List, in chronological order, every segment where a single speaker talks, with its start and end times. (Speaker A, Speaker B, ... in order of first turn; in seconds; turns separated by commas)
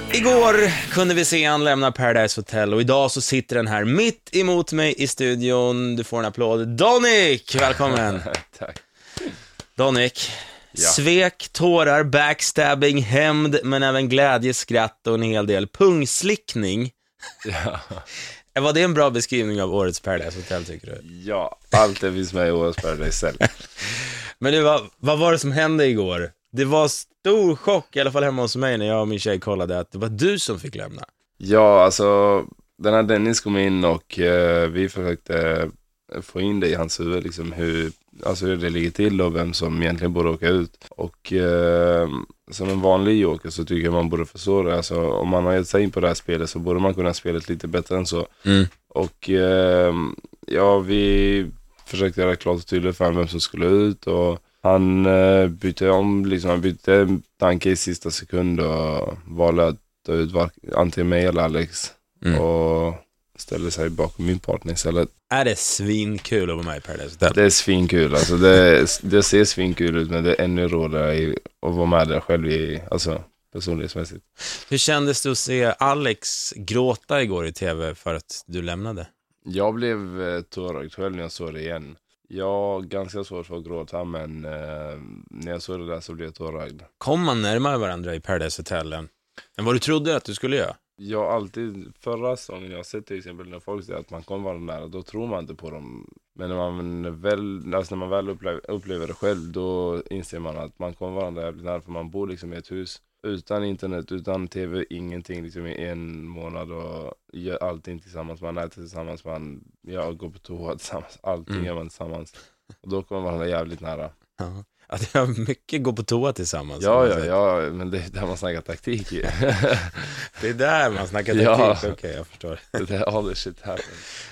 Speaker A: 0.1-8.3, Speaker B: 7.9-8.8, Speaker A: 9.8-16.9, Speaker B: 10.7-11.0, Speaker B: 17.4-18.1, Speaker A: 18.6-21.0, Speaker B: 21.0-23.4, Speaker A: 24.4-31.1, Speaker B: 31.4-48.3, Speaker A: 48.5-48.7, Speaker B: 48.9-65.1, Speaker A: 65.3-67.4, Speaker B: 67.3-74.2, Speaker A: 74.7-79.1, Speaker B: 79.5-86.9, Speaker A: 87.0-90.8, Speaker B: 91.0-114.1, Speaker A: 114.4-117.3, Speaker B: 116.8-120.2, Speaker A: 120.4-122.8, Speaker B: 121.3-122.0, Speaker B: 122.8-124.0